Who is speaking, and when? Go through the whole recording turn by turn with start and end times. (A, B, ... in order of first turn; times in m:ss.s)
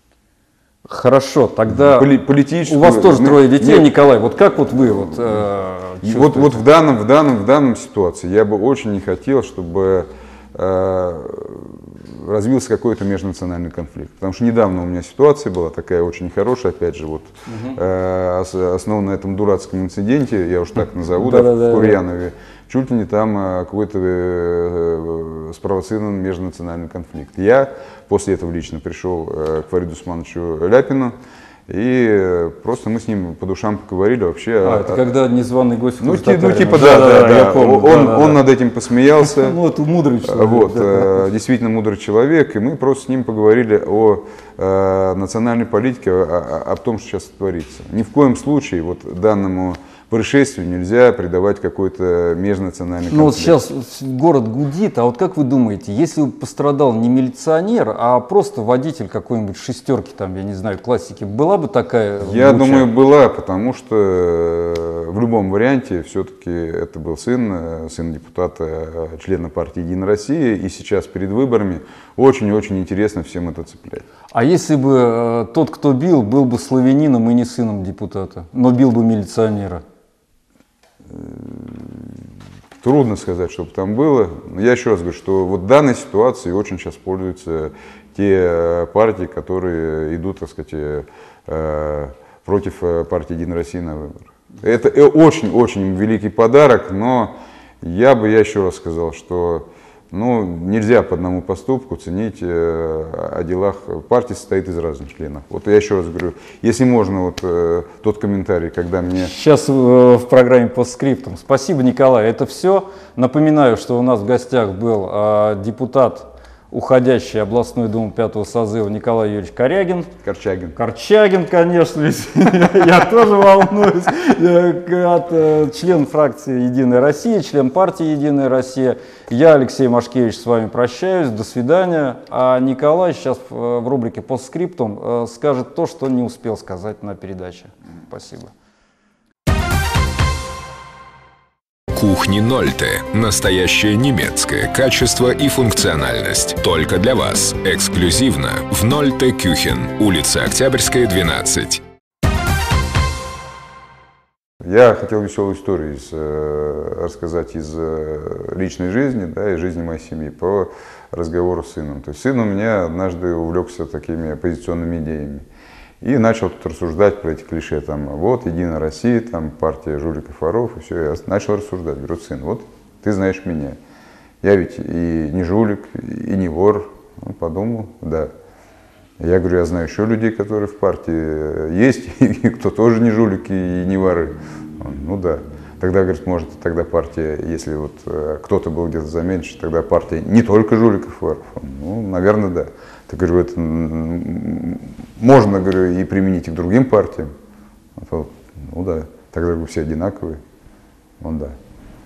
0:00.9-0:06.6 A
0:01.7-0:03.9 B
0:06.0-0:31.1 B
0:17.5-0:17.8 A
0:21.1-0:22.0 A
0:31.7-0:35.0 B
0:34.6-0:38.4 A
0:36.0-0:39.6 B
0:39.1-0:41.3 A
0:40.2-0:53.6 B
0:53.1-1:02.9 A
1:02.2-1:14.1 B
1:14.3-1:19.8 A
1:21.1-1:22.2 B
1:22.8-1:49.3 B
1:49.1-2:00.1 A
2:00.2-2:00.8 B
2:00.8-2:18.5 A
2:21.9-2:31.8 C
2:34.6-2:45.4 B
2:46.0-2:53.8 B
2:54.4-2:58.3 B
2:59.2-3:17.3 B
3:18.0-3:20.4 B
3:21.2-3:21.5 B